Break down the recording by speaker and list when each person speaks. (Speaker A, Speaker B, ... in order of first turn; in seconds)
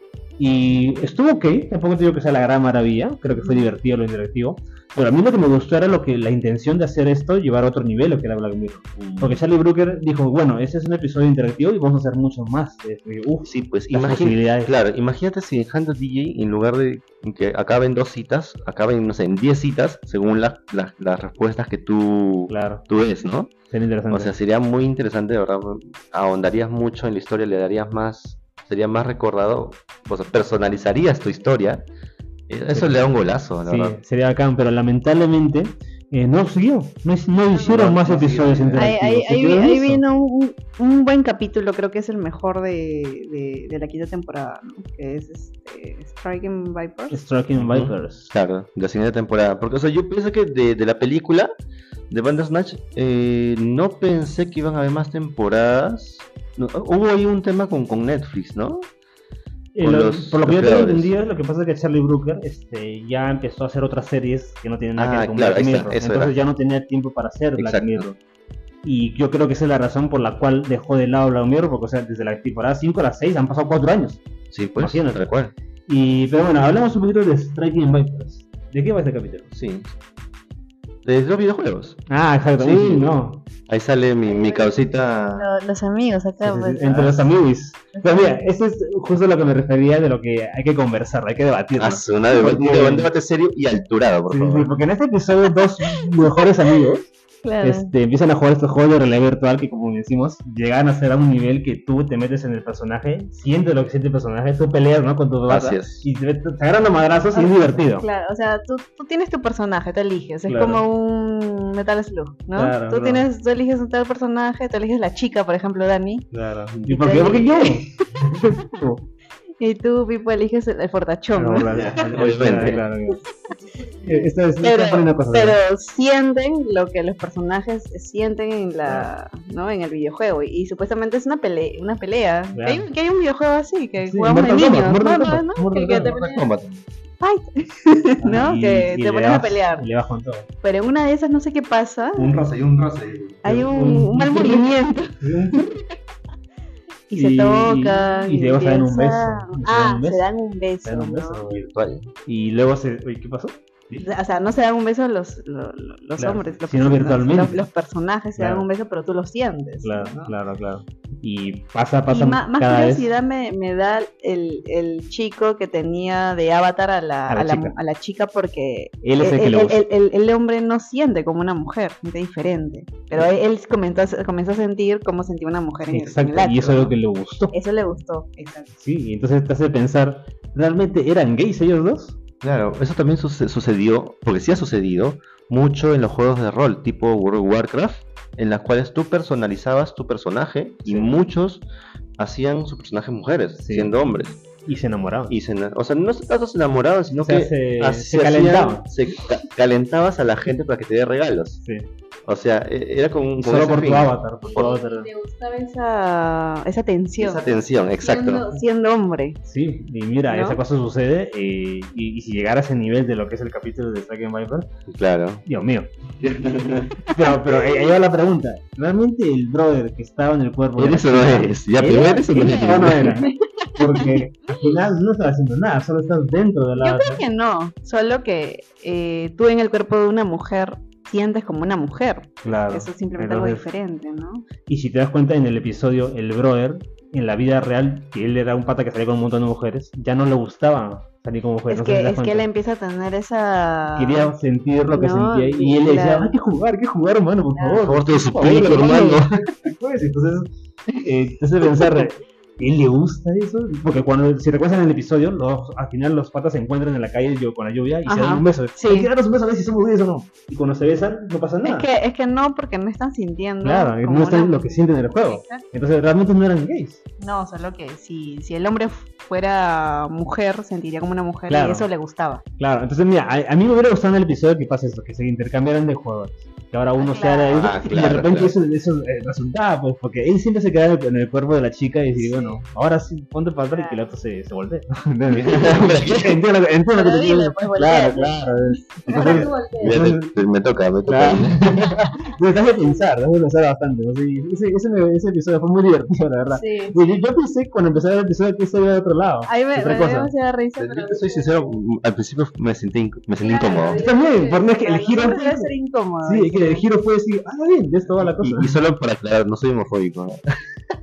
Speaker A: 0.4-14.7, 22.5-22.8, 23.7-24.3, 32.7-33.1, 33.6-40.0, 47.1-48.3, 59.8-68.2, 68.8-74.2, 74.8-75.2, 75.9-79.5, 82.1-83.4, 86.4-93.1, 94.3-97.1, 97.6-108.1, 110.5-110.8, 112.6-113.2, 116.3-119.0, 121.3-123.2, 124.0-125.6, 132.6-132.9, 134.1-136.2, 138.2-140.5, 142.2-142.5, 143.4-144.7, 145.2-145.7, 147.2-150.2, 150.8-151.7, 152.3-154.1, 156.2-157.6, 158.4-158.7, 159.8-163.1, 167.3-167.8, 169.0-169.8, 175.9-177.5, 178.8-182.2, 190.9-191.1, 193.6-193.9, 194.7-195.4, 197.1-198.9, 203.4-205.1, 209.5-214.7, 215.5-215.9, 217.1-227.2, 232.4-233.7, 234.7-242.4, 244.0-250.5, 251.0-261.9, 263.6-267.0, 271.5-271.9, 272.6-290.3, 291.1-300.3, 303.9-305.7, 306.2-308.7
Speaker B: 9.0-9.4, 13.4-23.5, 24.1-31.9, 32.5-34.0, 37.6-39.0, 47.6-51.5, 52.1-58.9, 59.8-61.1, 65.0-66.3, 67.6-68.1, 74.5-75.5, 79.5-79.9, 81.0-82.0, 82.6-83.1, 83.7-85.5, 91.8-94.7, 105.5-106.0, 121.7-122.8, 136.1-136.8, 142.3-143.4, 151.5-152.1, 182.4-191.7, 192.2-194.4, 195.3-201.6, 202.3-204.7, 207.2-208.5, 214.9-215.4, 216.2-217.0, 220.8-223.2, 247.8-249.3, 277.5-278.6, 285.3-286.4, 289.2-291.9, 300.8-304.0, 308.2-310.4
Speaker C: 38.8-47.2, 84.2-84.8, 85.3-87.2, 87.9-88.4, 95.5-96.8, 97.4-97.9, 107.3-116.3, 116.8-117.9, 119.6-121.9, 124.1-136.5, 137.2-139.9, 140.6-142.4, 143.4-145.7, 147.1-151.4, 154.0-160.3, 162.1-176.9, 177.5-178.7, 204.4-207.5, 208.0-209.4, 210.3-210.6, 223.2-224.1, 226.8-234.5, 241.7-244.3, 244.9-246.4, 247.6-247.8, 258.1-259.1, 261.6-265.6, 267.2-272.4, 277.0-277.7, 282.2-282.6, 283.7-284.1, 286.9-290.0, 296.5-297.0, 299.5-301.6, 303.4-306.9